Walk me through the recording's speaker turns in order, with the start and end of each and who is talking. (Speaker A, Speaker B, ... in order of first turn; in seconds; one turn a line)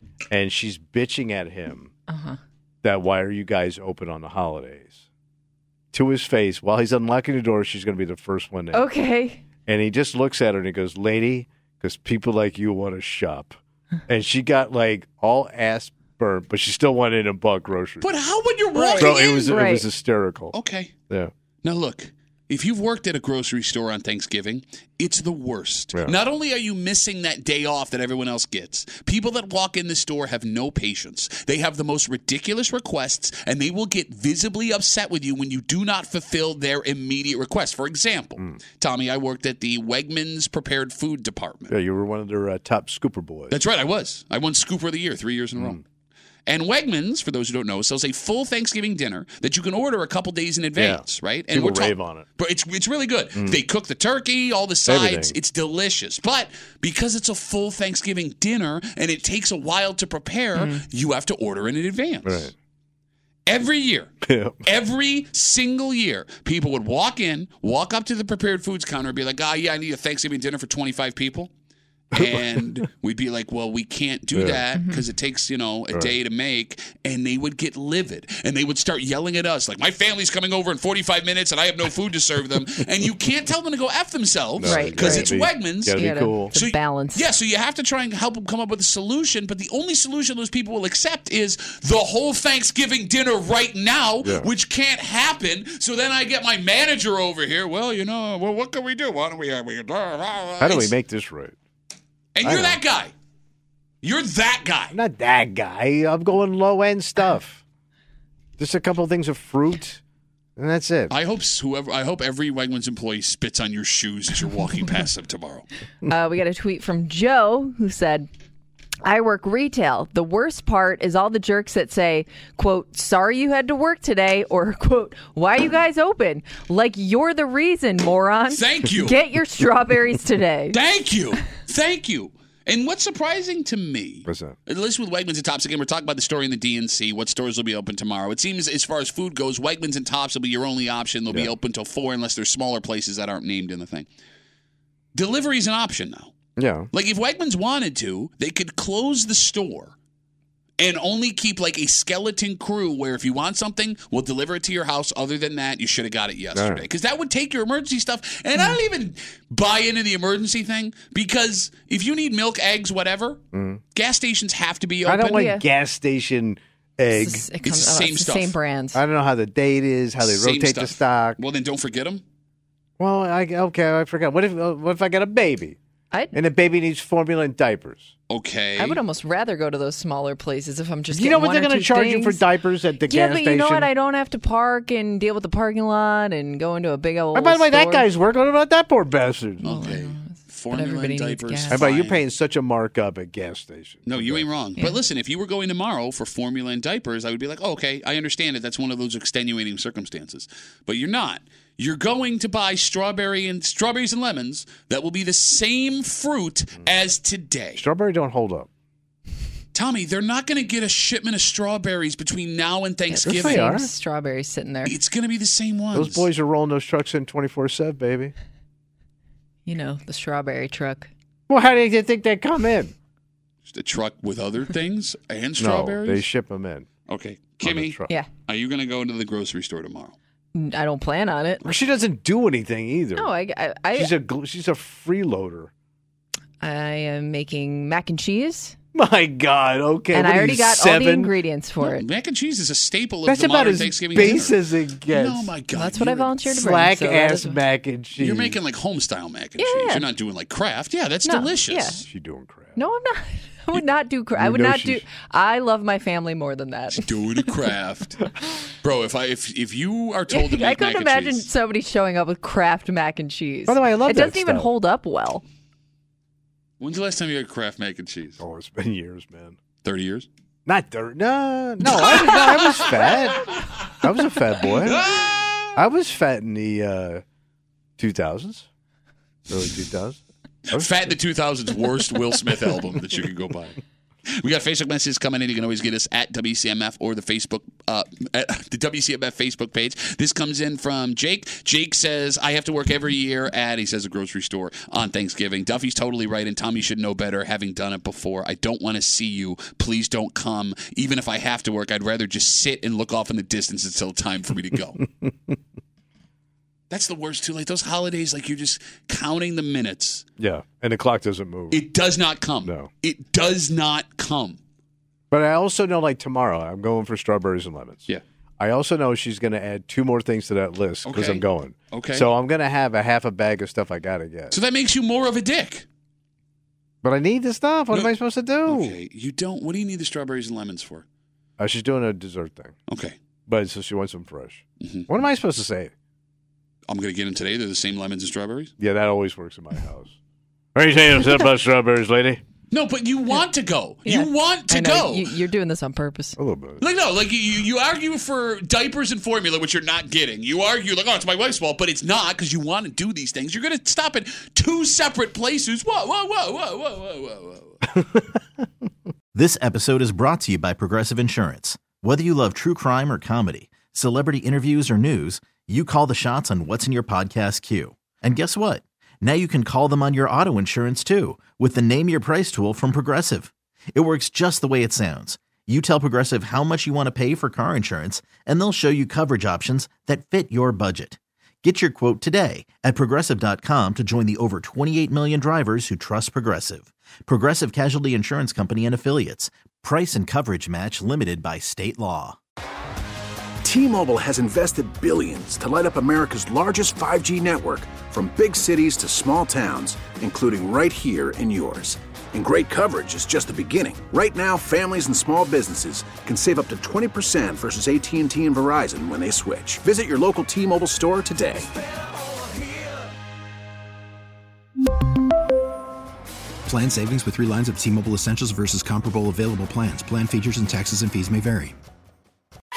Speaker A: 0.3-1.9
Speaker B: 2.1-2.4
Speaker A: 2.8-5.0
Speaker A: 5.9-8.9
Speaker B: 8.7-9.4
Speaker A: 9.6-18.1
Speaker C: 18.0-19.6
Speaker B: 18.7-19.9
Speaker A: 19.0-20.6
Speaker C: 20.5-20.9
Speaker C: 21.6-41.7
Speaker A: 41.7-43.6
Speaker C: 43.5-45.8
Speaker A: 45.5-45.8
Speaker C: 46.5-62.5
Speaker A: 50.8-52.2
Speaker A: 54.9-55.4
Speaker B: 60.5-60.8
Speaker A: 62.2-62.5
Speaker C: 63.5-64.1
Speaker A: 64.2-64.6
Speaker C: 64.6-71.5
Speaker C: 72.1-100.9
Speaker A: 72.1-72.6
Speaker A: 74.3-74.6
Speaker B: 74.7-75.0
Speaker A: 84.6-86.5
Speaker B: 84.6-85.4
Speaker B: 85.9-87.3
Speaker A: 94.2-94.5
Speaker A: 100.6-101.5
Speaker C: 102.3-103.1
Speaker A: 102.4-102.8
Speaker C: 104.0-104.9
Speaker A: 104.9-107.6
Speaker A: 108.6-110.0
Speaker A: 110.6-111.1
Speaker C: 111.1-115.7
Speaker B: 116.1-118.3
Speaker B: 119.0-130.8
Speaker C: 128.5-129.2
Speaker C: 130.7-144.1
Speaker A: 134.2-134.6
Speaker C: 145.1-146.3
Speaker A: 146.6-146.9
Speaker C: 146.9-149.9
Speaker C: 150.8-163.4
Speaker A: 156.5-156.8
Speaker A: 163.5-163.8
Speaker C: 163.9-165.4
Speaker A: 165.1-167.5
Speaker B: 165.3-165.6
Speaker B: 167.1-169.0
Speaker C: 167.6-168.6
Speaker A: 168.9-171.4
Speaker C: 170.2-172.2
Speaker A: 173.0-175.8
Speaker A: 176.3-178.1
Speaker C: 178.3-179.0
Speaker B: 178.8-182.4
Speaker A: 181.1-183.9
Speaker B: 183.0-188.1
Speaker A: 187.3-189.7
Speaker C: 189.6-192.2
Speaker B: 189.6-191.9
Speaker A: 191.7-194.5
Speaker C: 194.1-207.8
Speaker A: 207.8-208.7
Speaker C: 209.7-213.7
Speaker B: 213.1-214.9
Speaker A: 213.2-213.9
Speaker C: 214.8-216.3
Speaker A: 215.9-218.3
Speaker B: 219.6-221.1
Speaker A: 221.5-222.9
Speaker C: 223.7-226.3
Speaker A: 225.6-226.9
Speaker C: 227.1-230.1
Speaker A: 227.6-228.1
Speaker B: 230.5-231.7
Speaker A: 231.6-233.3
Speaker B: 233.2-234.1
Speaker A: 233.9-235.7
Speaker B: 236.6-238.7
Speaker A: 238.9-241.4
Speaker B: 240.1-242.0
Speaker C: 241.8-244.6
Speaker A: 243.2-245.5
Speaker C: 245.1-246.5
Speaker B: 245.7-247.6
Speaker A: 246.5-248.6
Speaker C: 248.2-252.0
Speaker B: 249.6-250.1
Speaker B: 251.2-252.0
Speaker A: 252.0-252.8
Speaker B: 252.8-257.1
Speaker A: 254.4-255.0
Speaker C: 257.0-258.3
Speaker C: 258.8-261.5
Speaker B: 260.3-265.4
Speaker A: 263.7-264.7
Speaker C: 266.8-268.4
Speaker A: 268.4-269.6
Speaker C: 269.8-270.3
Speaker A: 270.6-275.1
Speaker C: 271.9-273.1
Speaker C: 274.8-275.7
Speaker A: 275.7-277.2
Speaker A: 278.0-278.7
Speaker A: 279.5-280.2
Speaker C: 280.7-283.8
Speaker A: 280.7-281.1
Speaker C: 284.4-305.0
Speaker A: 305.2-305.5
Speaker C: 306.9-310.2
Speaker A: 310.4-311.8
Speaker C: 311.7-314.6
Speaker A: 312.6-312.9
Speaker A: 315.3-324.6
Speaker C: 321.0-322.3
Speaker C: 324.5-325.9
Speaker A: 327.0-328.9
Speaker C: 328.6-331.0
Speaker A: 331.6-332.7
Speaker C: 332.9-333.1
Speaker A: 333.5-335.9
Speaker C: 334.8-335.1
Speaker C: 336.9-338.7
Speaker A: 338.8-340.1
Speaker A: 340.7-342.4
Speaker C: 342.7-345.3
Speaker B: 344.0-346.4
Speaker A: 346.4-346.8
Speaker C: 346.8-357.8
Speaker D: 359.3-392.4
Speaker E: 393.6-411.7
Speaker F: 416.7-421.7